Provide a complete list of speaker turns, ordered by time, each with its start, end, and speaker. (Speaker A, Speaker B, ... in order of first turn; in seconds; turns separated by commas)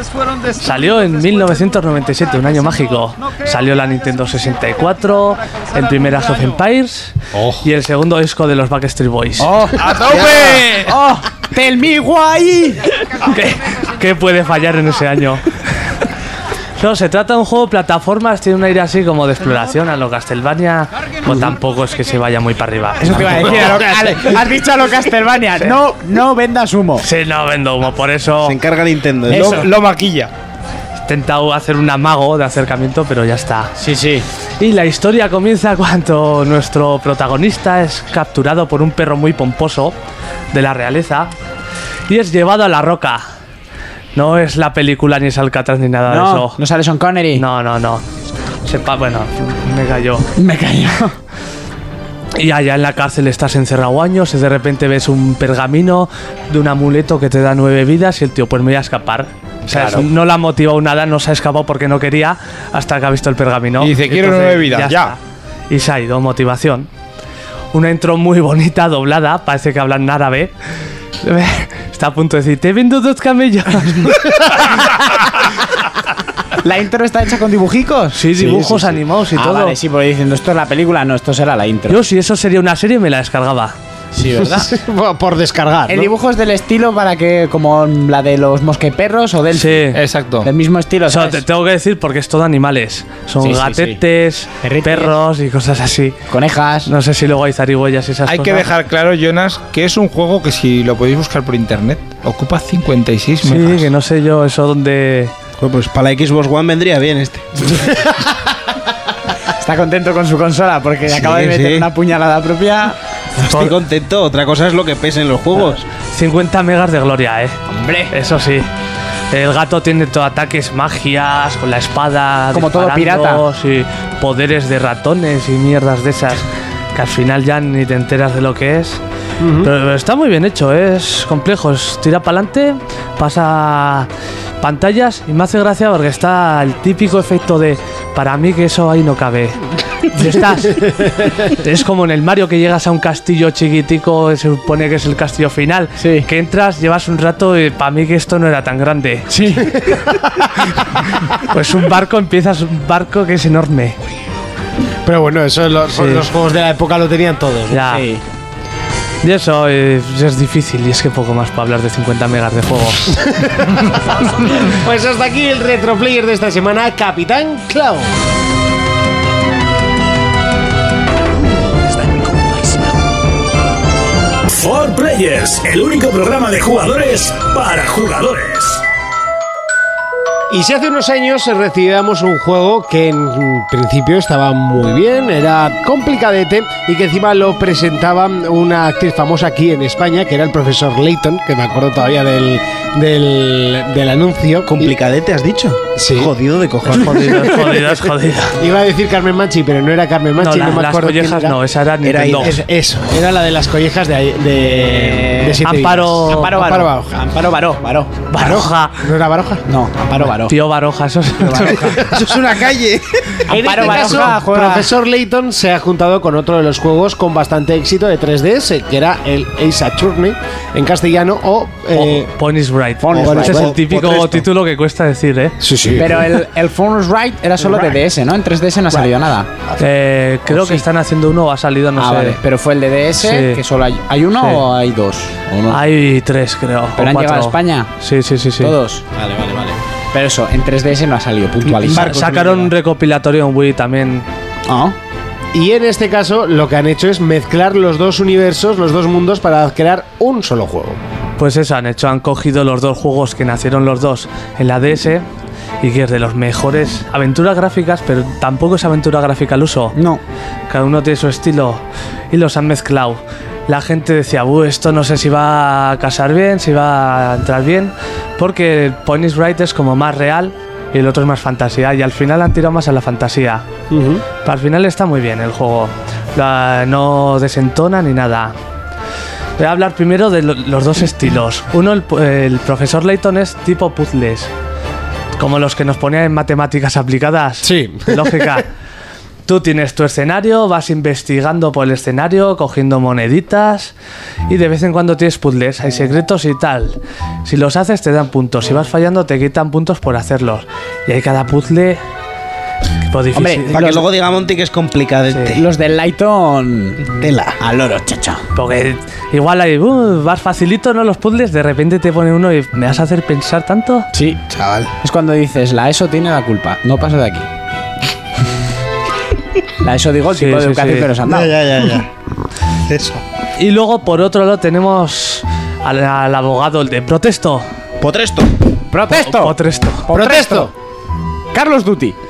Speaker A: 0.6-9.5, Speaker B: 7.3-7.6, Speaker C: 9.4-12.8, Speaker D: 9.8-10.9, Speaker E: 10.1-10.6, Speaker A: 13.2-15.7, Speaker A: 16.8-24.0, Speaker C: 23.0-27.1, Speaker A: 27.0-28.6, Speaker E: 28.4-29.6, Speaker C: 29.3-29.7, Speaker D: 29.3-30.3, Speaker A: 31.1-33.7, Speaker C: 33.8-34.2, Speaker A: 34.6-39.9, Speaker A: 40.5-41.3, Speaker A: 42.1-43.2, Speaker A: 44.1-46.6, Speaker C: 46.1-47.4, Speaker A: 47.3-48.0, Speaker A: 48.6-50.3, Speaker C: 50.4-51.1, Speaker A: 52.3-65.2, Speaker D: 59.7-60.0, Speaker D: 63.8-65.1, Speaker A: 65.7-66.9, Speaker A: 67.7-70.5, Speaker A: 71.2-74.7, Speaker C: 76.6-82.0, Speaker A: 78.1-79.8, Speaker A: 81.9-83.8, Speaker C: 84.1-84.7, Speaker B: 84.4-86.1, Speaker C: 85.9-91.4, Speaker A: 89.5-90.0, Speaker D: 89.9-90.5, Speaker A: 91.1-96.2, Speaker C: 93.4-94.0, Speaker C: 94.6-95.1, Speaker C: 96.3-96.9, Speaker A: 96.8-98.7, Speaker D: 98.2-103.9, Speaker A: 103.4-105.3, Speaker E: 105.6-107.8, Speaker C: 109.5-113.0, Speaker E: 111.1-111.9, Speaker E: 113.4-115.8, Speaker A: 116.1-117.6, Speaker C: 117.7-118.1, Speaker A: 118.1-118.7, Speaker A: 119.3-126.4, Speaker C: 122.5-123.4, Speaker A: 126.9-129.0, Speaker B: 129.4-129.7, Speaker A: 129.6-134.1, Speaker A: 134.6-149.3, Speaker C: 146.0-146.3, Speaker C: 149.3-149.7, Speaker B: 149.8-150.4, Speaker A: 151.4-154.0, Speaker B: 155.1-157.9, Speaker A: 155.9-156.2, Speaker A: 157.7-158.1, Speaker C: 157.9-158.2, Speaker A: 159.2-163.1, Speaker B: 163.2-163.8, Speaker B: 164.6-168.1, Speaker C: 172.2-172.5, Speaker F: 174.5-178.8, Speaker B: 180.5-194.9, Speaker E: 194.6-197.6, Speaker B: 195.9-196.3, Speaker A: 196.9-198.6, Speaker B: 198.6-201.5, Speaker A: 200.4-202.6, Speaker E: 202.0-202.6, Speaker B: 202.4-207.2, Speaker C: 204.8-205.5, Speaker A: 205.6-206.5, Speaker C: 206.3-208.3, Speaker A: 208.3-209.0, Speaker B: 208.4-209.6, Speaker C: 209.7-210.6, Speaker A: 210.4-212.0, Speaker C: 211.4-211.8, Speaker E: 211.9-213.5, Speaker B: 213.5-222.3, Speaker C: 213.5-214.9, Speaker A: 221.9-225.6, Speaker C: 223.0-223.7, Speaker E: 223.1-224.4, Speaker B: 225.6-226.4, Speaker C: 225.9-229.5, Speaker A: 229.8-232.4, Speaker C: 230.5-230.8, Speaker C: 232.0-235.8, Speaker A: 233.2-233.6, Speaker A: 235.7-238.7, Speaker C: 237.0-237.9, Speaker C: 238.6-242.2, Speaker E: 241.8-242.7, Speaker A: 241.9-244.2, Speaker C: 244.7-244.9, Speaker B: 245.5-251.0, Speaker A: 251.4-255.2, Speaker A: 255.8-259.9, Speaker C: 259.9-260.2, Speaker A: 260.7-273.6, Speaker B: 273.9-274.2, Speaker A: 274.4-278.5, Speaker A: 279.6-284.5, Speaker A: 285.4-288.7, Speaker B: 287.6-288.4, Speaker A: 289.4-293.9, Speaker A: 294.5-302.0, Speaker A: 303.1-303.9, Speaker C: 303.3-304.0, Speaker E: 303.7-305.6, Speaker C: 305.5-307.0, Speaker E: 307.1-307.6, Speaker C: 307.6-308.4, Speaker A: 308.5-314.1, Speaker C: 314.1-314.4, Speaker E: 314.5-314.9, Speaker C: 315.0-317.5, Speaker C: 319.8-321.5, Speaker A: 320.3-321.1, Speaker E: 321.2-322.1, Speaker E: 322.9-323.2, Speaker A: 323.6-327.6, Speaker E: 328.0-328.5, Speaker C: 328.9-329.5, Speaker A: 329.1-330.1, Speaker C: 330.1-330.7, Speaker B: 330.1-330.7, Speaker C: 331.5-332.2